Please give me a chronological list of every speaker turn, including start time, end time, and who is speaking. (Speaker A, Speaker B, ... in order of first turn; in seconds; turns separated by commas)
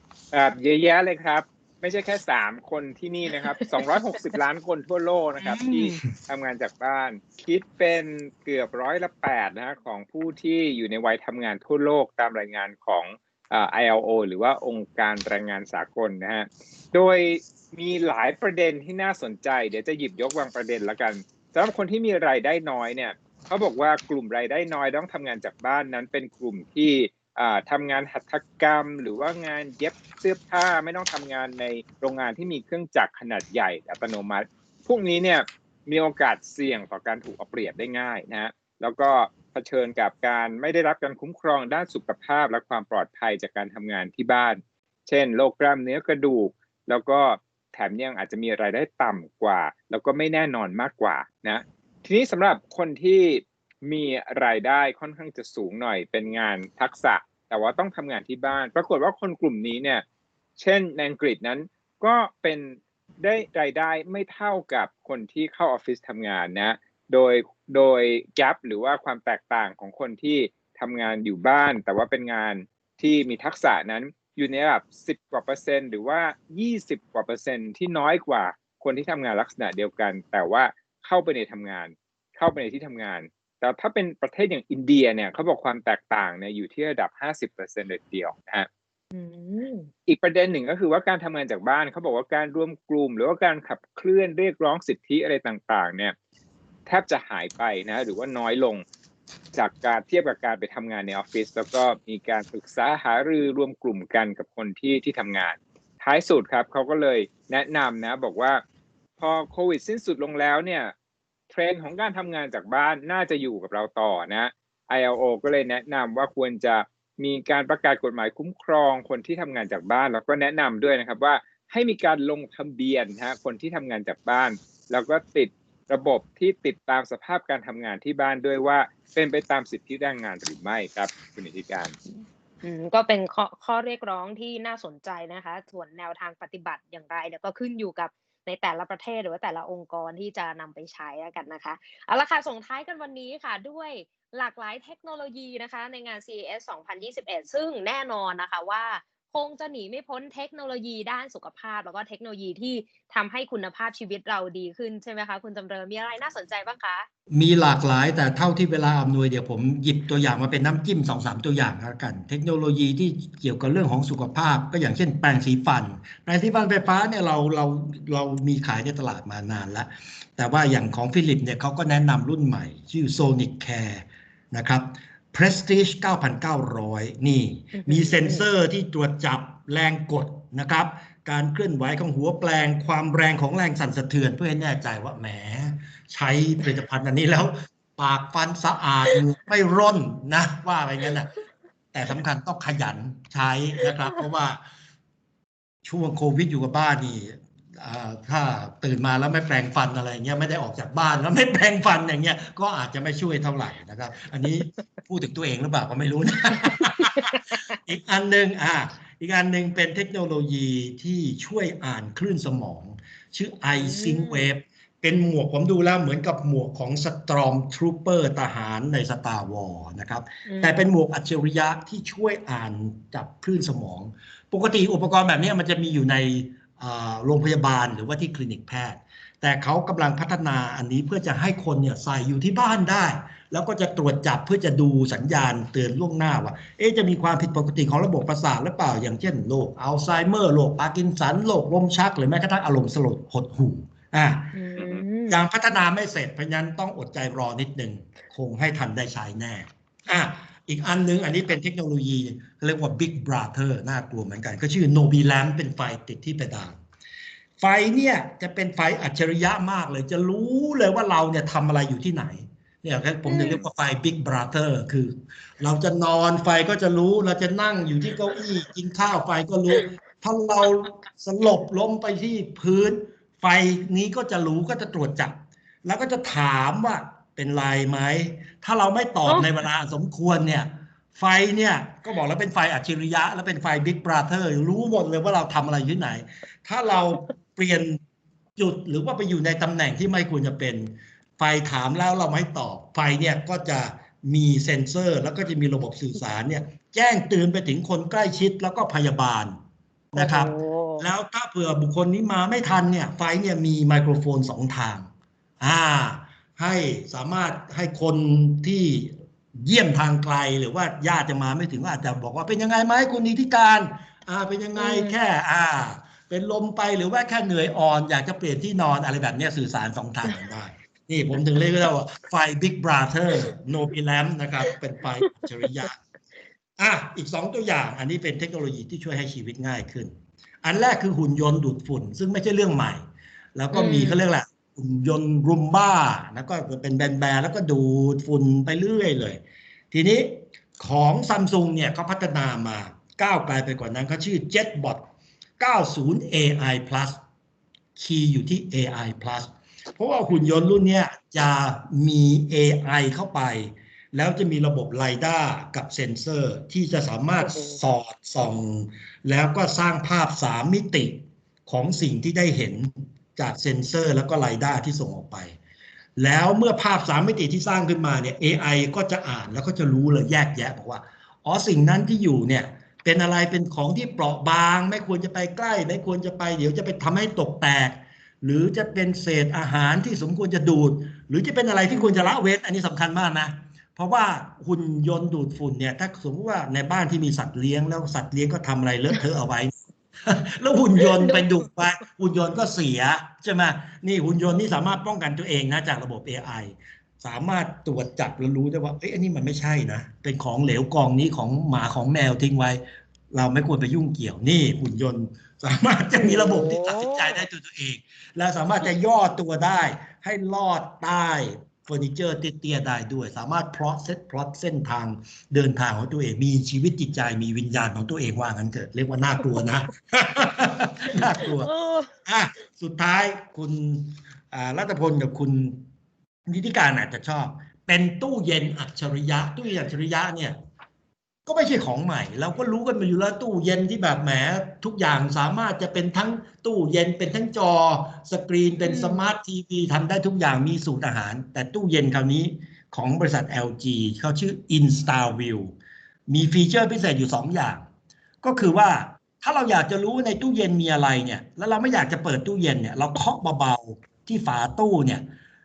Speaker A: 0.3-60.0, Speaker B: 5.4-6.0, Speaker A: 60.6-88.7, Speaker B: 89.1-89.9, Speaker A: 90.1-96.1, Speaker A: 96.9-98.8, Speaker A: 99.5-108.6, Speaker A: 109.2-110.9, Speaker A: 111.5-131.9, Speaker B: 132.1-157.1, Speaker C: 157.3-191.3, Speaker B: 177.7-178.4, Speaker C: 191.9-194.6, Speaker C: 195.8-244.5, Speaker B: 207.0-207.6, Speaker B: 213.7-214.5, Speaker B: 220.4-220.9, Speaker B: 244.5-245.4, Speaker C: 245.3-256.8, Speaker C: 257.6-288.0, Speaker B: 263.2-263.6, Speaker C: 288.6-299.5, Speaker C: 300.1-325.9, Speaker B: 300.1-301.1, Speaker B: 314.8-315.2, Speaker C: 326.8-333.0, Speaker C: 333.5-345.1, Speaker B: 333.7-334.2, Speaker C: 345.6-347.2, Speaker C: 347.9-365.5, Speaker B: 357.4-357.8, Speaker C: 366.2-421.7, Speaker B: 381.9-382.3, Speaker B: 391.0-391.6, Speaker B: 406.1-407.4, Speaker B: 421.2-422.1, Speaker C: 422.2-425.8, Speaker C: 426.5-430.6, Speaker C: 431.4-445.7, Speaker B: 438.8-439.2, Speaker C: 446.3-447.9, Speaker C: 448.4-455.3